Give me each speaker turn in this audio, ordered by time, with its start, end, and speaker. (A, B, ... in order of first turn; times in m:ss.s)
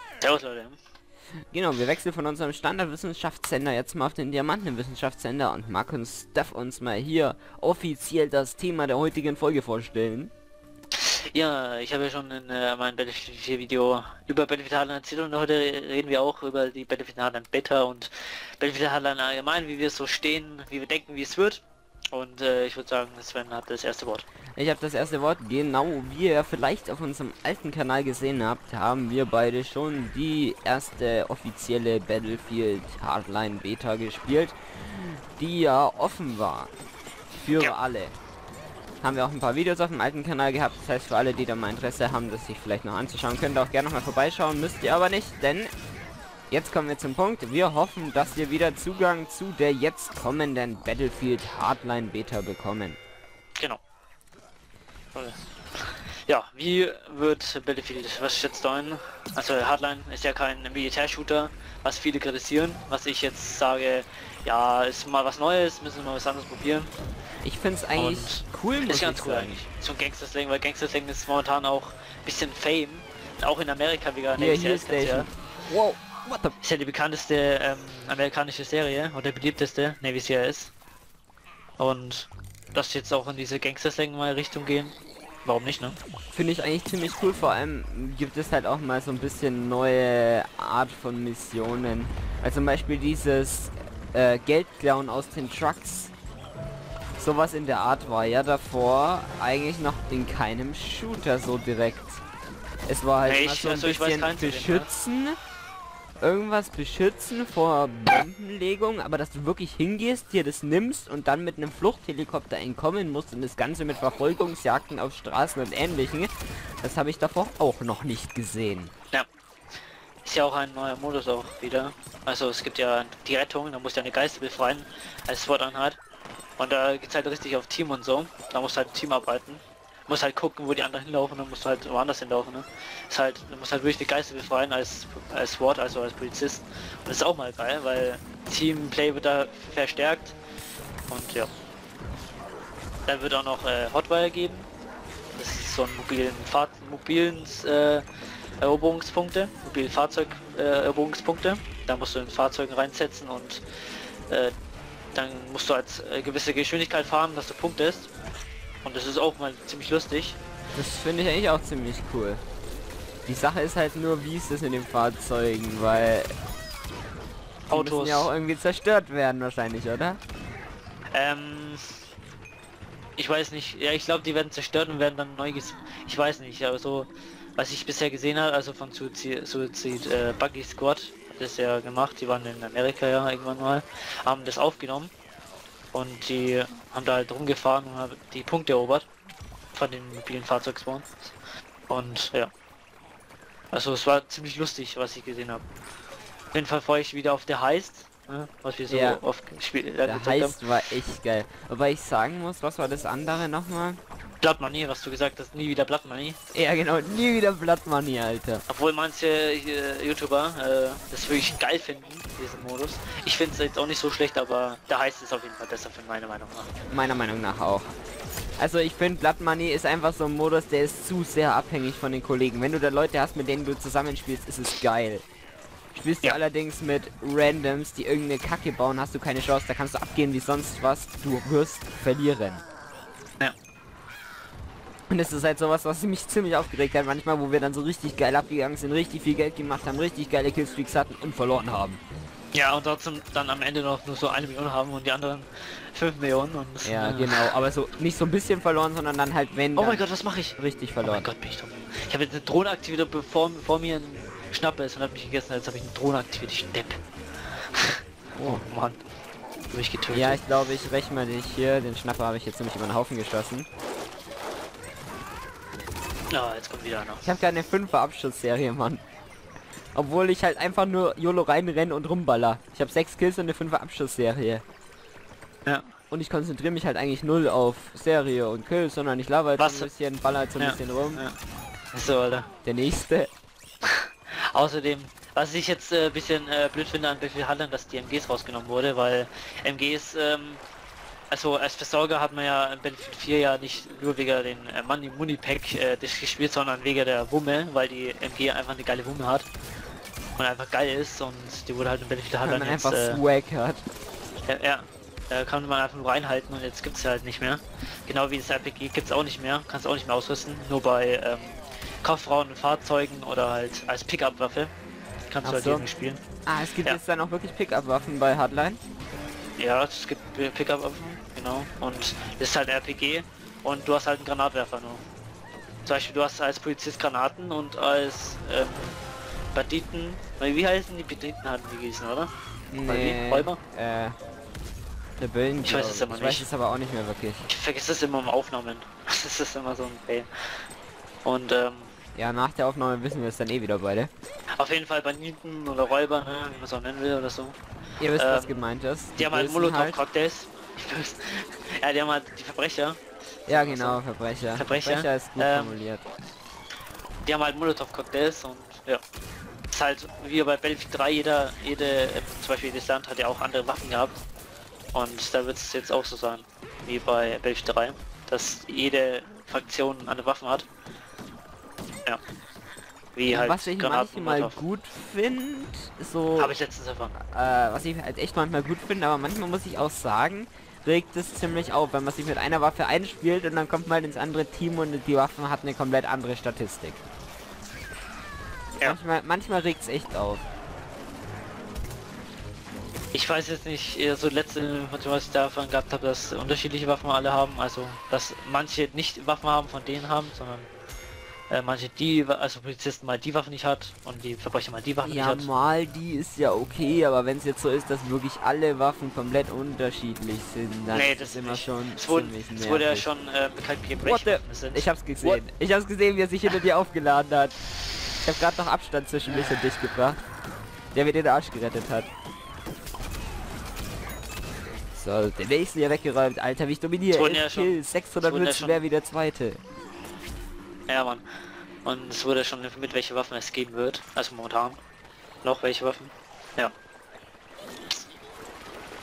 0:00.2-0:00.8 A
0:01.5-0:10.3 B
0:11.0-0:24.2 A
0:24.6-0:36.7 B
0:37.3-0:38.1 B
0:39.0-0:45.7 B
0:46.5-0:53.0 B
0:55.1-1:06.9 A
1:07.4-1:09.6 B
1:08.0-1:15.3 A
1:14.4-1:16.6 B
1:16.6-1:20.7 A
1:21.8-1:24.9 A
1:25.4-1:26.0 A
1:26.3-1:36.1 B
1:37.2-1:42.2 B
1:42.9-1:45.4 B
1:43.2-1:44.9 A
1:46.2-1:58.9 B
2:00.2-2:06.0 A
2:06.6-2:20.4 A
2:21.1-2:21.5 A
2:23.1-2:24.7 A
2:25.4-2:28.0 A
2:28.6-2:33.6 A
2:35.1-2:38.1 A
2:38.8-2:40.4 A
2:40.7-2:42.4 B
2:43.3-2:46.3 B
2:47.7-2:48.3 A
2:47.7-2:50.2 B
2:51.1-2:51.8 A
2:53.2-3:05.1 A
3:05.9-3:09.1 A
3:09.7-3:11.3 A
3:11.9-3:12.5 A
3:13.7-3:15.6 A
3:16.5-3:20.6 A
3:18.9-3:19.2 B
3:20.0-3:24.0 B
3:24.4-3:26.4 A
3:26.5-3:28.6 B
3:28.7-3:36.7 A
3:36.9-3:37.9 B
3:38.6-3:45.2 B
3:45.9-3:52.6 B
3:55.1-4:02.0 B
4:02.5-4:07.5 A
4:06.8-4:10.0 B
4:09.8-4:17.0 A
4:10.6-4:11.3 B
4:17.8-4:19.0 A
4:18.4-4:18.6 B
4:19.7-4:20.4 A
4:20.1-4:23.7 B
4:26.3-4:27.2 A
4:27.2-4:29.0 B
4:29.9-4:34.6 B
4:36.1-4:41.2 B
4:39.6-4:39.9 A
4:40.6-4:41.4 A
4:41.9-4:42.5 A
4:42.6-4:43.3 B
4:43.8-4:50.6 A
4:51.3-4:59.5 A
5:00.4-5:03.2 A
5:02.4-5:03.8 B
5:04.5-5:14.7 A
5:15.3-5:16.2 A
5:15.4-5:15.9 B
5:16.5-5:18.8 B
5:19.6-5:25.0 A
5:25.8-5:29.0 A
5:29.5-5:32.3 A
5:32.7-5:34.2 B
5:32.9-5:33.6 A
5:35.2-5:37.5 B
5:35.6-5:36.5 A
5:37.5-5:40.3 A
5:41.2-5:41.9 A
5:42.2-5:44.1 B
5:44.6-5:47.6 A
5:48.0-5:50.0 B
5:48.2-5:48.7 A
5:49.2-5:54.0 A
5:53.5-5:56.0 B
5:54.6-5:55.8 A
5:57.2-5:59.0 A
5:59.7-6:04.2 A
6:04.9-6:10.7 A
6:13.2-6:14.6 A
6:13.3-6:16.6 B
6:16.4-6:17.1 A
6:17.2-6:27.0 B
6:28.8-6:30.4 B
6:33.1-6:40.7 A
6:41.5-6:45.5 A
6:45.0-6:53.1 B
6:50.9-6:55.4 A
6:54.0-6:57.6 B
6:58.2-7:00.2 B
7:00.9-7:02.1 B
7:04.9-7:09.6 B
7:07.1-7:08.8 A
7:10.9-7:11.2 A
7:11.8-7:14.8 A
7:15.4-7:16.7 A